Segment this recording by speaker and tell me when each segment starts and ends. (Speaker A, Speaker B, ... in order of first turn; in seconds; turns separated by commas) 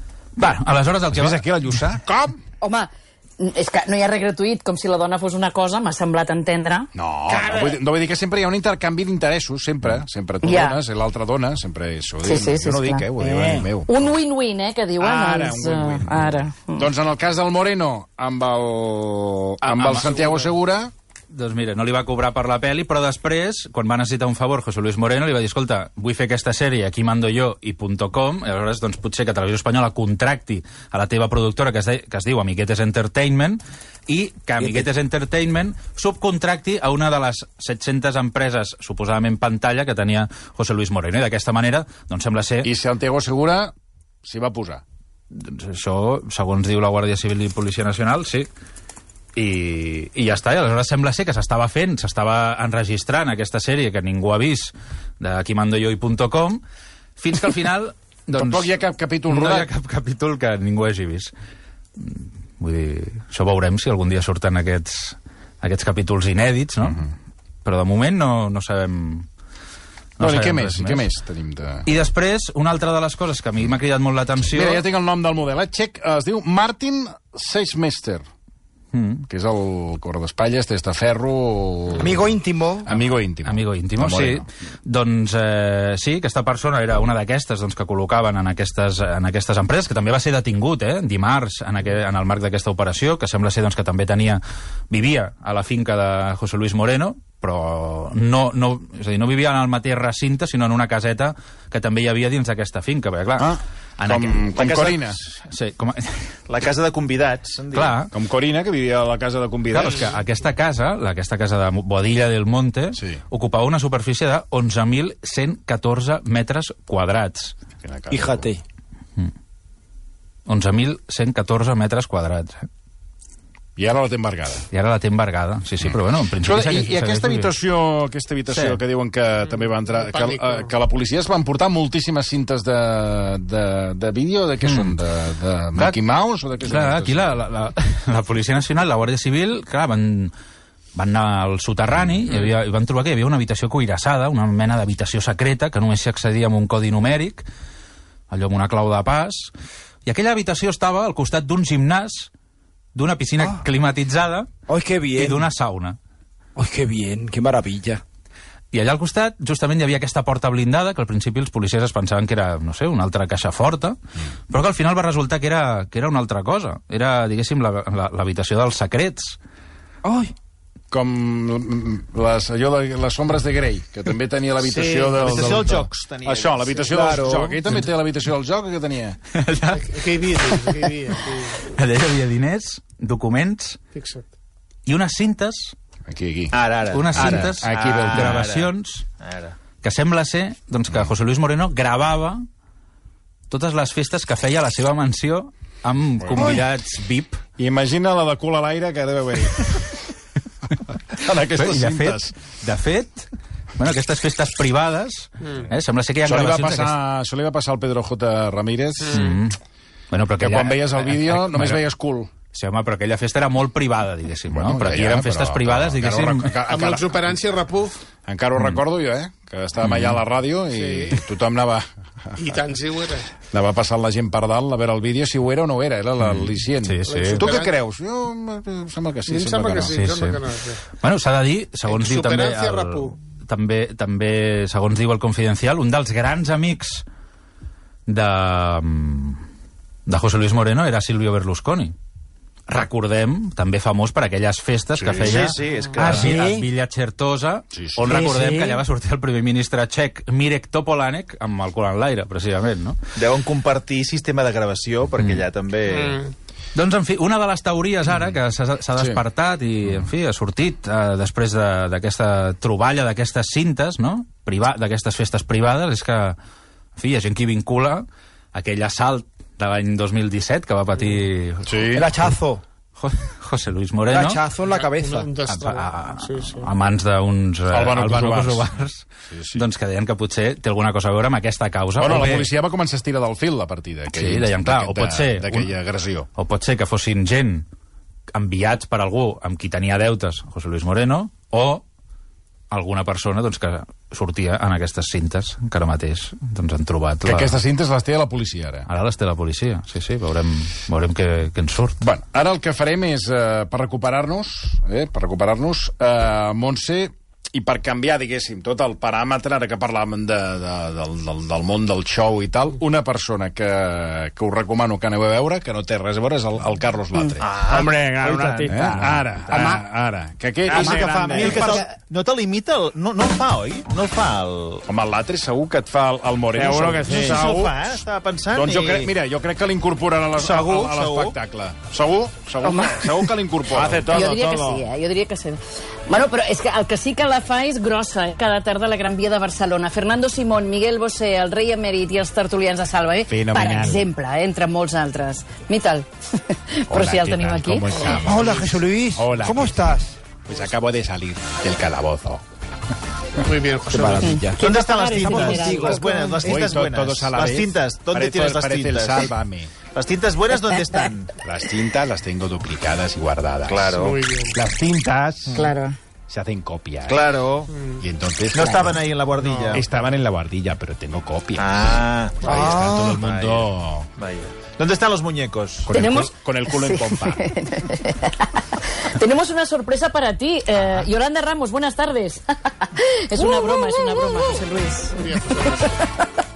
Speaker A: 0.4-1.4, Speaker B: 1.1-2.4, Speaker C: 2.6-6.9, Speaker B: 6.9-14.2, Speaker D: 7.4-7.7, Speaker C: 10.4-10.8, Speaker C: 12.2-13.1, Speaker E: 13.2-13.8, Speaker C: 13.9-16.9, Speaker B: 15.0-20.9, Speaker A: 19.6-20.5, Speaker A: 21.3-42.7, Speaker E: 34.6-34.9, Speaker B: 42.6-44.8, Speaker A: 45.3-48.5, Speaker A: 49.4-56.6, Speaker A: 57.2-58.7, Speaker B: 58.4-59.7, Speaker A: 59.3-61.3, Speaker A: 62.0-67.0, Speaker A: 67.6-69.3, Speaker A: 70.2-71.1, Speaker B: 70.2-71.9, Speaker A: 71.8-74.8, Speaker B: 74.5-78.2, Speaker A: 78.9-79.2, Speaker B: 79.3-82.3, Speaker E: 82.0-82.9, Speaker B: 82.8-84.5, Speaker A: 83.4-106.3, Speaker B: 103.4-105.2, Speaker F: 104.5-105.0, Speaker F: 106.5-108.0, Speaker A: 107.7-108.1, Speaker B: 108.1-110.2, Speaker A: 109.7-117.5, Speaker B: 113.0-113.2, Speaker B: 117.8-118.5, Speaker E: 118.1-118.6, Speaker A: 120.5-122.7, Speaker B: 123.8-124.7, Speaker A: 124.7-127.5, Speaker B: 125.9-137.4, Speaker A: 128.5-128.8, Speaker D: 130.0-130.7, Speaker A: 134.6-134.9, Speaker A: 136.6-140.3, Speaker A: 140.9-147.5, Speaker A: 148.3-149.5, Speaker A: 150.0-152.3, Speaker A: 152.9-154.5, Speaker E: 154.7-155.5, Speaker A: 155.1-156.0, Speaker E: 156.6-158.0, Speaker A: 158.7-164.0, Speaker A: 164.5-169.4, Speaker E: 170.0-170.3, Speaker B: 170.9-179.2, Speaker D: 174.8-175.5, Speaker F: 174.8-176.9, Speaker E: 176.9-177.6, Speaker A: 179.3-180.7, Speaker D: 179.7-181.7, Speaker A: 181.6-183.8, Speaker D: 183.9-184.2, Speaker A: 184.8-185.7, Speaker B: 186.1-188.5, Speaker F: 186.5-189.6, Speaker A: 186.9-189.0, Speaker A: 189.8-192.4, Speaker A: 193.5-197.4, Speaker B: 196.2-196.6, Speaker E: 196.4-196.6, Speaker B: 197.6-199.9, Speaker B: 201.1-202.3, Speaker A: 201.5-206.9, Speaker D: 205.4-205.7, Speaker B: 206.2-209.4, Speaker D: 209.0-209.3, Speaker A: 209.0-209.6, Speaker A: 210.1-211.8, Speaker B: 210.4-212.3, Speaker A: 212.5-216.6, Speaker B: 214.5-217.4, Speaker D: 216.6-218.0, Speaker B: 218.2-222.6, Speaker A: 219.8-220.2, Speaker D: 220.6-221.2, Speaker D: 222.4-223.3, Speaker B: 223.5-229.9, Speaker A: 226.2-227.6, Speaker D: 227.1-227.7, Speaker D: 229.3-230.8, Speaker A: 229.9-230.4, Speaker A: 231.0-237.0, Speaker D: 231.9-233.1, Speaker A: 238.1-239.4, Speaker A: 240.1-241.9, Speaker A: 242.7-253.0, Speaker B: 244.9-245.5, Speaker F: 245.1-246.4, Speaker E: 245.9-246.7, Speaker B: 247.7-248.1, Speaker E: 248.1-248.8, Speaker F: 253.1-256.2, Speaker A: 255.2-255.4, Speaker D: 255.9-256.3, Speaker A: 256.7-266.4, Speaker B: 258.9-259.2, Speaker A: 266.9-272.3, Speaker B: 271.6-272.1, Speaker E: 271.9-272.6, Speaker A: 273.0-274.4, Speaker E: 274.1-275.3, Speaker D: 274.6-276.7, Speaker A: 275.4-282.5, Speaker B: 277.7-278.7, Speaker B: 279.3-279.6, Speaker B: 282.0-286.3, Speaker A: 284.1-285.7, Speaker A: 286.4-287.6, Speaker A: 288.3-291.8, Speaker A: 292.7-297.6, Speaker B: 297.2-298.9, Speaker A: 298.9-302.0, Speaker B: 302.0-317.5, Speaker F: 317.4-318.8, Speaker E: 317.6-319.8, Speaker B: 318.7-321.9, Speaker E: 320.7-321.9, Speaker F: 320.7-324.8, Speaker B: 324.9-328.0, Speaker E: 326.5-327.5, Speaker F: 327.1-329.1, Speaker B: 328.5-334.4, Speaker F: 330.3-331.4, Speaker C: 332.6-333.1, Speaker E: 333.8-334.8, Speaker C: 334.1-348.1, Speaker B: 343.3-344.1, Speaker B: 346.9-352.4, Speaker E: 348.0-350.1, Speaker D: 353.4-354.4, Speaker E: 353.9-356.2, Speaker C: 354.2-356.4, Speaker F: 354.6-359.3, Speaker B: 356.4-359.7, Speaker F: 359.9-361.3, Speaker B: 361.4-365.7, Speaker F: 363.7-364.2, Speaker D: 364.0-364.6, Speaker C: 365.5-365.9, Speaker B: 366.3-367.2, Speaker F: 367.1-367.7, Speaker D: 367.7-368.0, Speaker B: 368.0-369.0, Speaker F: 368.5-369.8, Speaker D: 369.4-369.9, Speaker B: 369.7-374.1, Speaker F: 371.6-375.9, Speaker D: 372.4-372.7, Speaker B: 375.8-377.6, Speaker C: 375.9-386.3, Speaker D: 385.1-386.0